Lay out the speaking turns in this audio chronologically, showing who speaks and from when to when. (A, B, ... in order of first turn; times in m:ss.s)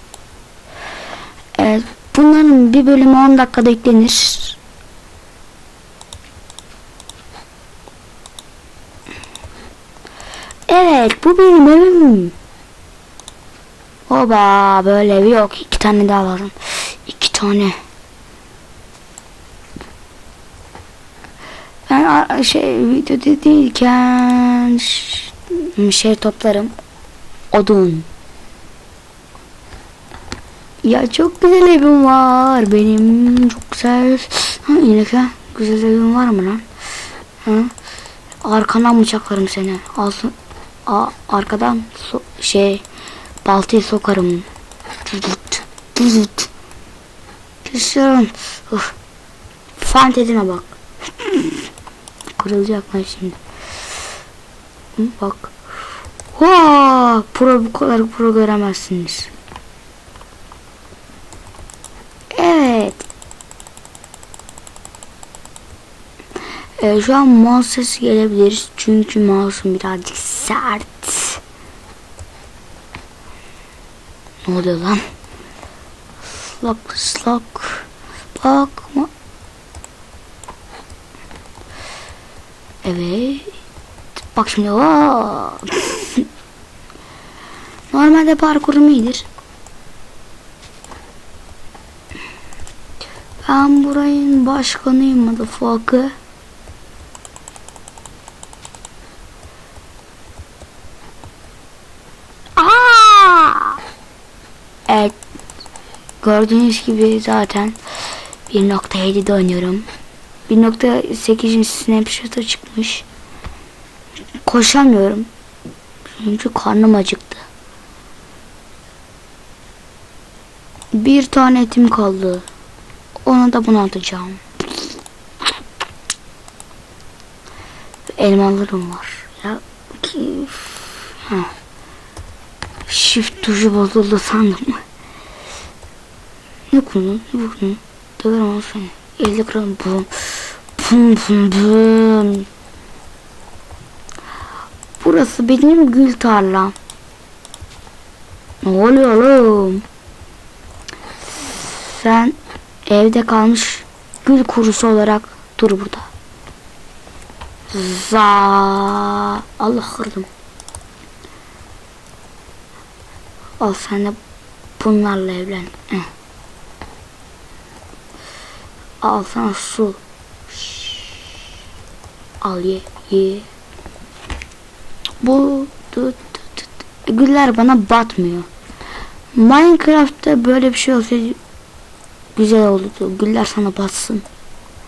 0:01.6-0:04.6 A
0:10.7-0:12.3 A
0:14.1-0:17.8 A
0:21.9-0:26.7 A
0:27.5-0:28.1 A
0:30.8-0:36.6 A
0:37.4-0:37.7 A
0:38.4-0:40.3 A
0:40.8-0:42.8 A
0:43.4-0:44.4 A
0:45.0-0:46.5 A
0:47.6-0:48.9 A
0:49.8-0:51.6 A
0:52.3-0:53.4 A
0:55.0-0:55.5 A
0:56.3-0:59.3 A
1:02.3-1:03.0 A
1:06.8-1:11.4 A
1:14.4-1:15.0 A
1:16.4-1:19.1 A
1:22.8-1:23.5 A
1:24.3-1:26.2 A
1:27.9-1:29.2 A
1:33.4-1:36.1 A
1:42.6-1:43.8 A
1:44.9-1:45.2 A
1:46.2-1:47.8 A
1:48.5-1:49.8 A
1:50.5-1:53.0 A
1:54.4-1:55.3 A
1:56.1-1:57.4 A
2:00.9-2:02.4 A
2:03.2-2:04.4 A
2:08.2-2:11.5 A
2:12.9-2:14.8 A
2:16.7-2:22.5 A
2:25.0-2:26.7 A
2:28.6-2:29.8 A
2:31.4-2:36.1 A
2:37.7-2:40.3 A
2:43.6-2:44.2 A
2:44.8-2:46.1 A
2:49.0-2:51.3 A
2:52.4-2:53.4 A
2:55.2-2:58.5 A
2:59.3-3:01.4 A
3:02.3-3:04.2 A